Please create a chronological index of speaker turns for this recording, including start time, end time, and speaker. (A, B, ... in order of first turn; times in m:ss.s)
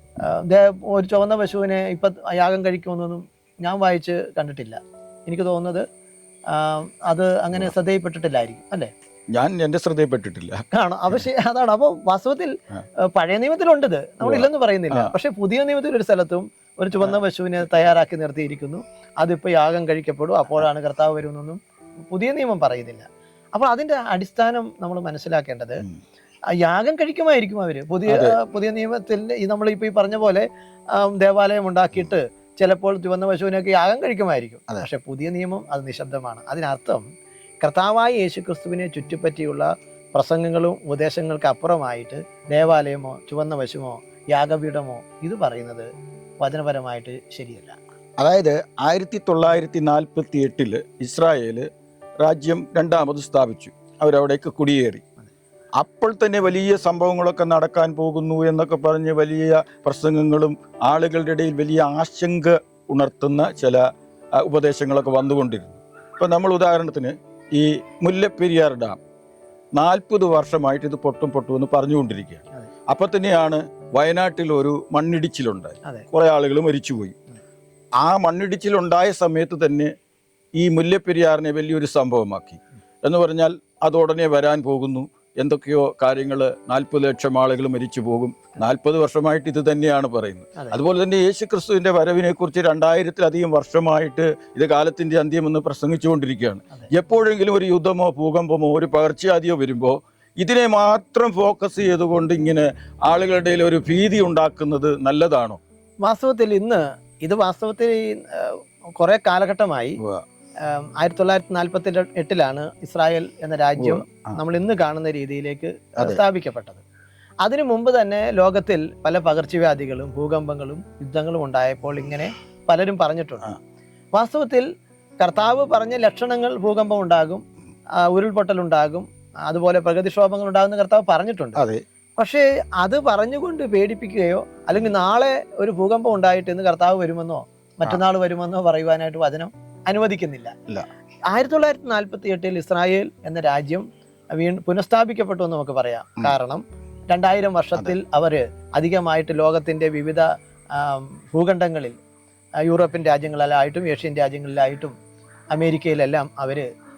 0:00.2-0:05.8 A
0:06.5-0:08.9 A
0:09.3-0:10.6 B
0:10.7-0:21.6 A
0:14.2-0:15.1 B
0:22.1-0:25.9 A
0:26.6-0:37.0 A
0:28.1-0:28.4 B
0:37.6-0:45.9 A
0:46.4-0:47.8 A
0:48.2-0:51.7 B
0:52.2-0:55.0 B
0:55.8-1:03.8 B
1:04.4-1:09.0 B
1:09.8-1:17.2 B
1:18.0-1:19.9 B
1:20.6-1:45.6 B
1:46.0-1:50.0 A
1:50.6-1:56.8 A
1:53.8-1:54.1 B
1:57.4-2:03.5 A
2:04.1-2:04.6 A
2:05.2-2:07.4 A
2:08.0-2:11.6 A
2:11.6-2:11.8 B
2:12.2-2:20.6 A
2:21.3-2:32.0 A
2:32.6-2:34.9 A
2:35.5-2:36.6 A